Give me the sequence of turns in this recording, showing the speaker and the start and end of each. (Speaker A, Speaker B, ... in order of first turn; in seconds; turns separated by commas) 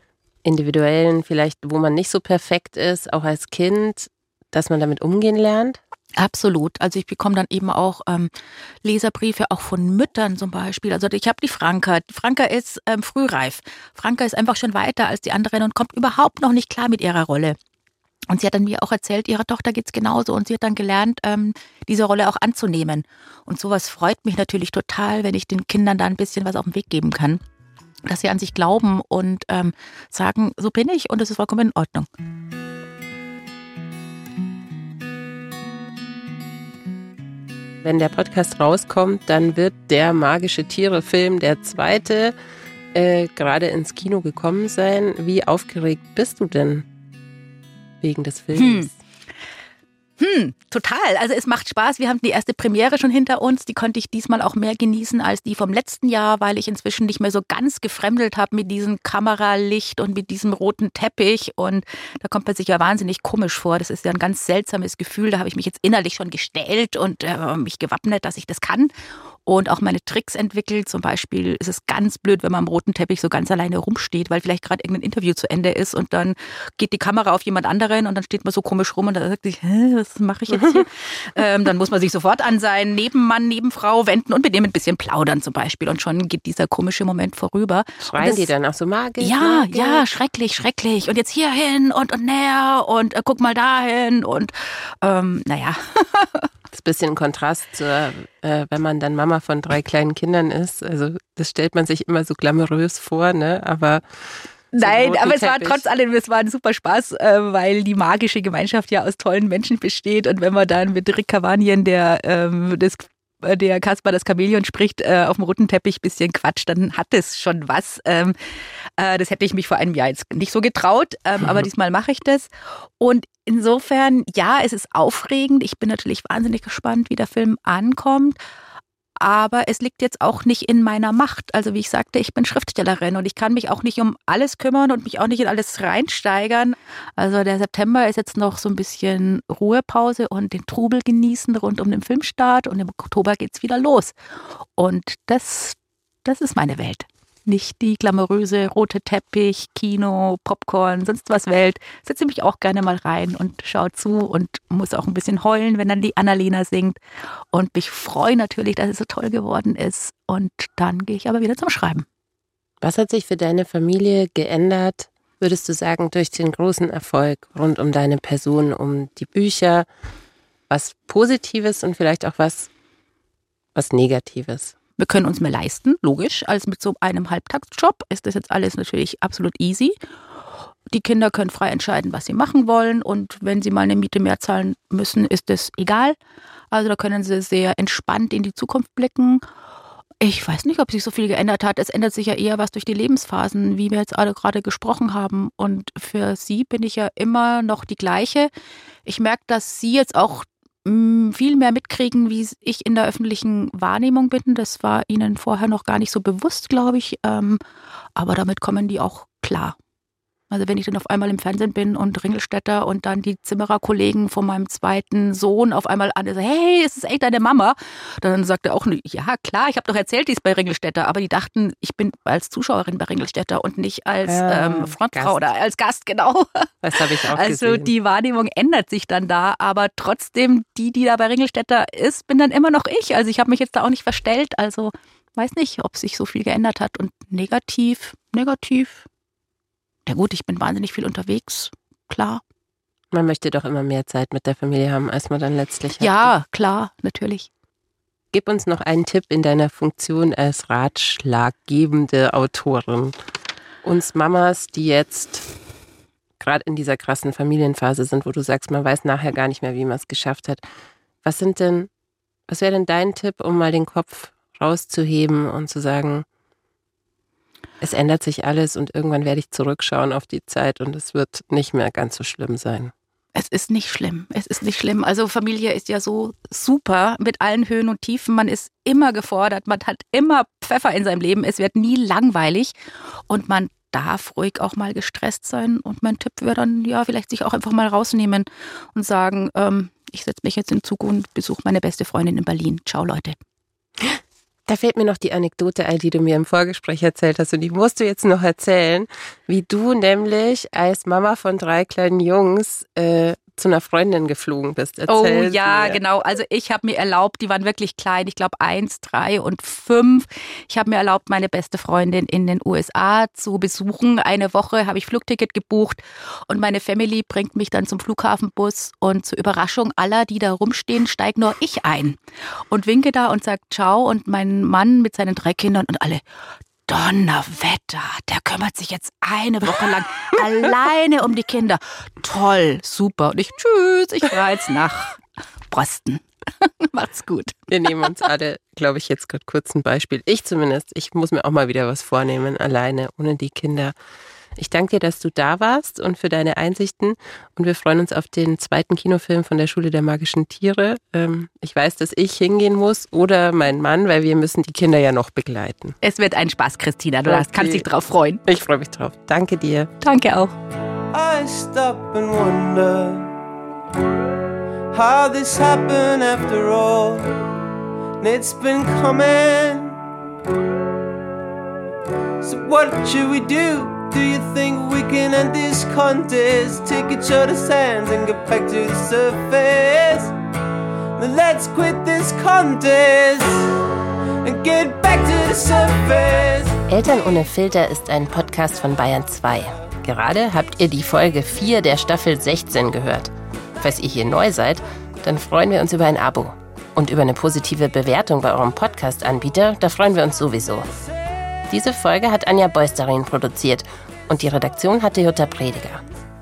Speaker A: 0.4-5.8, Speaker B: 6.2-8.3, Speaker B: 8.8-17.6, Speaker B: 18.3-27.4, Speaker B: 28.1-32.1, Speaker A: 37.8-42.4, Speaker A: 42.9-46.9, Speaker A: 48.0-49.0, Speaker B: 48.6-48.9, Speaker B: 50.2-68.9, Speaker B: 69.5-88.5, Speaker A: 80.5-80.9, Speaker A: 88.0-90.0, Speaker B: 89.2-96.5, Speaker A: 96.7-104.0, Speaker B: 104.7-118.4, Speaker A: 104.8-105.9, Speaker B: 119.0-122.5, Speaker B: 123.0-128.4, Speaker B: 129.2-144.1, Speaker B: 144.8-157.0, Speaker B: 157.5-162.1, Speaker A: 162.8-169.9, Speaker A: 170.7-172.7, Speaker A: 173.8-174.8, Speaker B: 175.0-180.0, Speaker B: 180.9-186.2, Speaker B: 186.7-189.4, Speaker B: 190.2-198.5, Speaker B: 199.1-207.6, Speaker B: 208.2-209.8, Speaker B: 210.5-226.7, Speaker A: 224.3-225.4, Speaker A: 226.8-227.9, Speaker B: 227.2-239.1, Speaker B: 240.1-242.4, Speaker A: 243.1-246.3, Speaker B: 246.0-247.5, Speaker A: 248.3-253.2, Speaker A: 253.8-255.5, Speaker A: 256.4-260.7, Speaker A: 261.2-261.9, Speaker A: 262.5-266.3, Speaker A: 267.8-272.9, Speaker B: 273.4-282.7, Speaker B: 283.3-293.4, Speaker A: 294.0-306.0, Speaker B: 305.1-322.2, Speaker B: 322.7-326.2, Speaker B: 326.9-337.6, Speaker A: 337.7-343.9, Speaker A: 344.6-356.0, Speaker B: 356.0-358.4, Speaker A: 357.3-357.9, Speaker A: 358.5-359.9, Speaker B: 360.0-360.5, Speaker C: 361.1-363.3, Speaker C: 364.9-367.3, Speaker C: 368.2-370.0, Speaker C: 372.4-380.3, Speaker C: 381.2-383.7, Speaker C: 384.4-386.8, Speaker A: 386.9-400.9, Speaker A: 401.7-406.0